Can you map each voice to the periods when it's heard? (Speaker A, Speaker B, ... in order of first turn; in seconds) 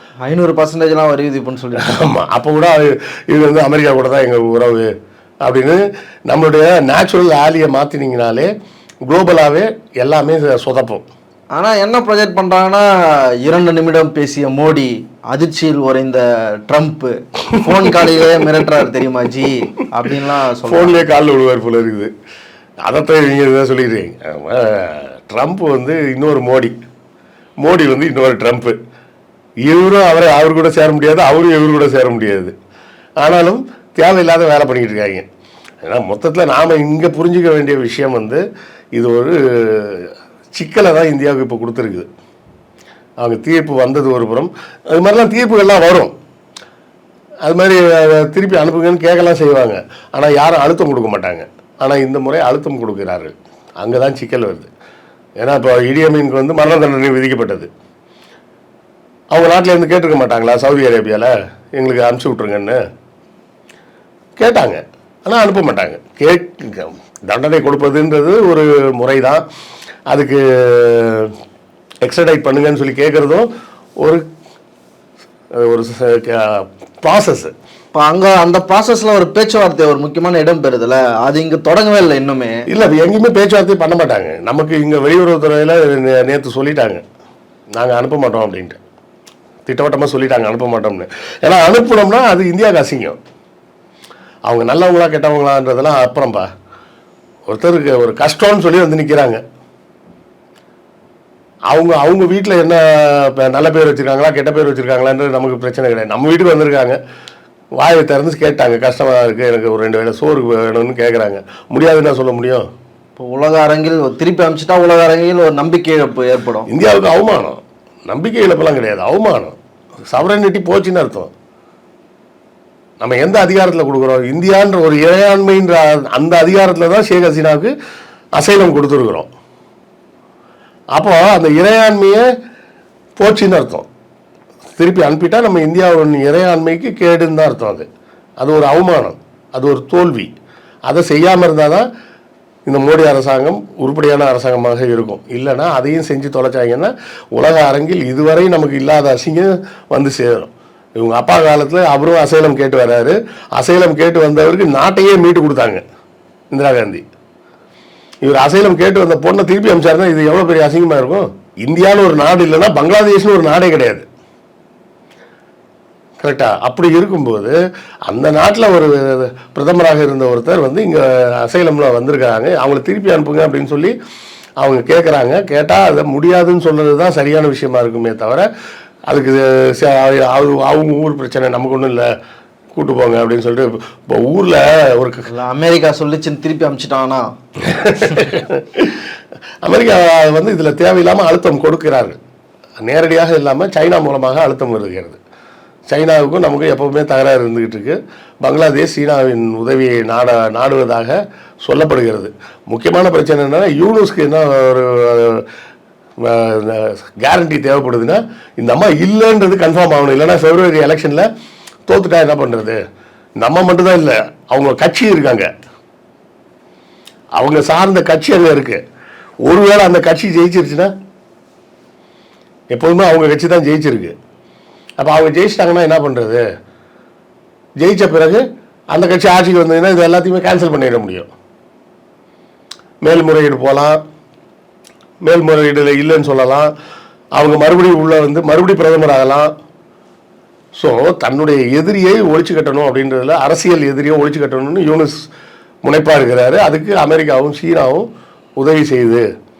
Speaker A: 0.2-1.9, 11.5-12.9, 13.4-21.0, 77.9-82.6, 113.2-116.7, 185.3-187.2
Speaker B: 1.8-4.9, 5.4-8.5, 9.1-11.1, 20.6-22.1, 22.9-26.7, 27.6-28.8, 29.6-32.5, 33.2-35.2, 35.8-42.1, 43.2-46.1, 47.4-54.7, 55.4-57.7, 59.3-62.8, 64.4-69.4, 70.1-71.3, 72.0-73.5, 75.5-77.5, 82.7-87.0, 87.7-88.8, 89.6-93.2, 94.5-96.5, 97.5-99.4, 101.7-107.0, 107.8-112.7, 116.7-119.5, 120.1-121.3, 123.0-127.7, 128.3-129.3, 130.9-132.2, 133.2-133.9, 134.8-137.8, 138.4-140.3, 140.9-141.9, 142.7-155.8, 156.5-157.0, 158.2-164.1, 166.2-167.6, 168.1-173.9, 174.6-178.5, 179.1-182.1, 182.7-185.2, 187.6-189.1, 189.6-192.2, 192.8-195.2, 195.9-205.4, 206.2-211.3, 211.9-212.8, 213.4-215.5, 217.4-218.8, 219.4-220.9, 222.7-224.1, 225.0-226.4, 227.8-231.3, 233.0-234.0, 235.2-236.7, 237.3-239.5, 240.8-245.2, 245.8-248.1, 248.6-249.2